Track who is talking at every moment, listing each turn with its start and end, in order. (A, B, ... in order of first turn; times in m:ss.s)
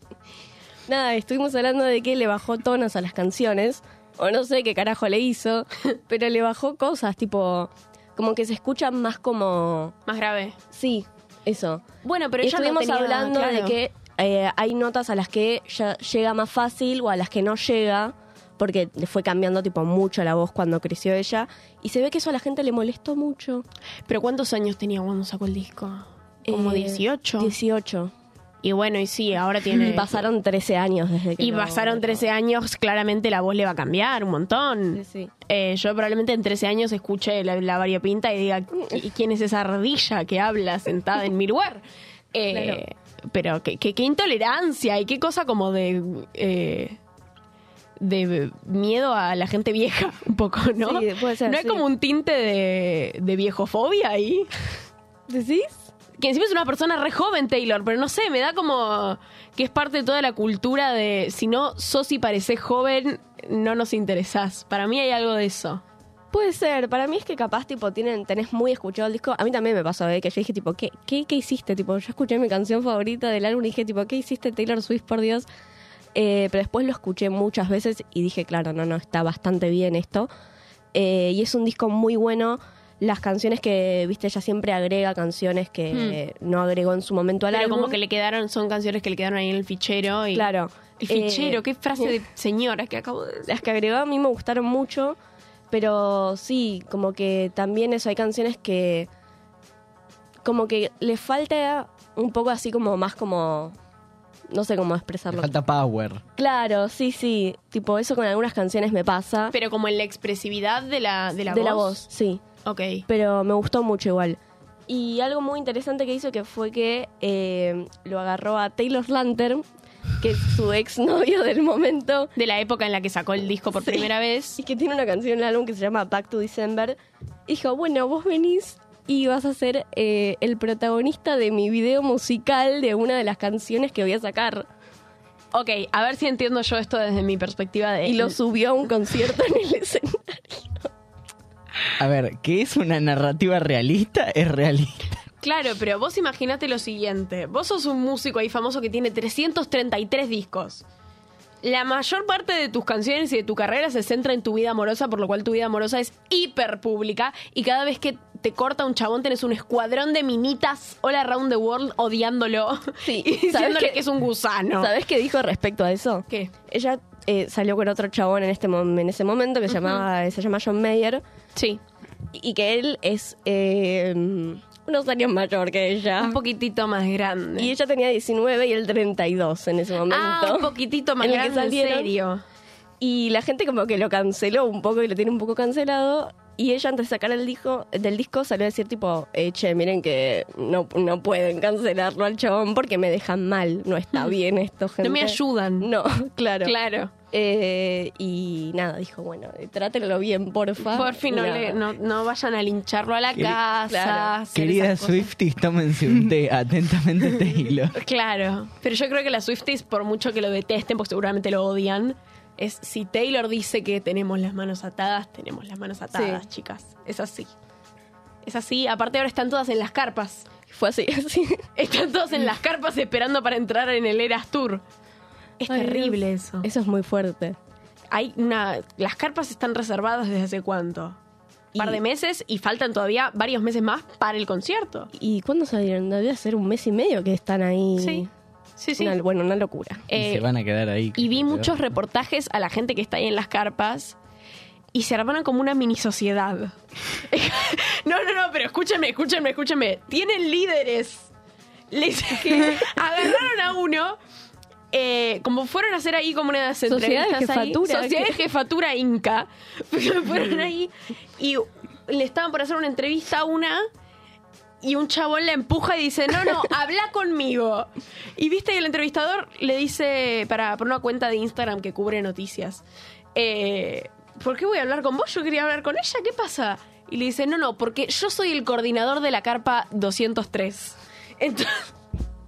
0:00.9-0:10.0 A
0:10.1-0:10.6 B
0:10.7-0:11.8 A
0:12.0-0:13.8 B
0:12.4-0:23.6 A
0:24.1-0:27.5 B
0:26.5-0:28.1 A
0:28.6-0:30.3 B
0:29.7-0:32.3 A
0:31.4-0:41.8 B
0:34.9-0:35.3 A
0:42.3-0:47.0 B
0:42.5-0:42.8 A
0:48.0-0:54.5 B
0:50.8-0:51.8 A
0:55.3-0:55.9 A
0:56.2-1:05.8 B
1:06.3-1:15.5 A
1:16.1-1:20.3 A
1:20.9-1:28.0 A
1:25.9-1:26.2 B
1:27.5-1:30.5 B
1:30.3-1:32.1 A
1:31.0-1:33.5 B
1:33.5-1:35.2 A
1:35.7-1:39.1 A
1:40.4-1:43.8 A
1:44.5-1:45.5 A
1:45.3-1:46.2 C
1:46.4-1:49.5 A
1:49.5-1:52.0 B
1:51.5-1:52.4 A
1:52.6-1:53.0 B
1:53.1-1:59.6 A
2:00.2-2:02.3 A
2:02.4-2:04.6 B
2:03.8-2:14.7 A
2:15.5-2:18.4 B
2:18.0-2:20.9 A
2:22.0-2:25.2 C
2:25.4-2:30.8 B
2:31.6-2:44.9 B
2:43.0-2:44.1 A
2:44.8-2:51.2 A
2:51.6-2:51.8 B
2:52.3-2:56.4 A
2:56.2-2:57.7 B
2:57.6-3:02.1 A
3:00.1-3:02.4 B
3:03.0-3:16.8 A
3:15.0-3:15.9 B
3:16.6-3:17.1 B
3:17.3-3:21.8 A
3:20.9-3:25.3 B
3:23.9-3:24.3 A
3:24.5-3:28.0 C
3:28.0-3:37.5 B
3:36.1-3:36.4 A
3:38.4-3:40.5 B
3:40.7-3:41.6 A
3:41.8-3:44.8 B
3:45.6-3:46.7 B
3:45.7-3:47.6 A
3:48.1-3:51.2 B
3:51.7-3:52.0 A
3:51.8-3:55.1 B
3:55.1-3:58.3 A
3:58.0-3:58.3 B
3:58.8-3:59.2 B
3:59.0-4:00.1 A
4:00.1-4:00.4 B
4:00.1-4:01.8 C
4:01.2-4:04.2 B
4:04.9-4:11.3 B
4:11.9-4:14.2 B
4:14.9-4:23.8 B
4:16.9-4:18.4 A
4:24.8-4:32.8 B
4:33.4-4:41.9 B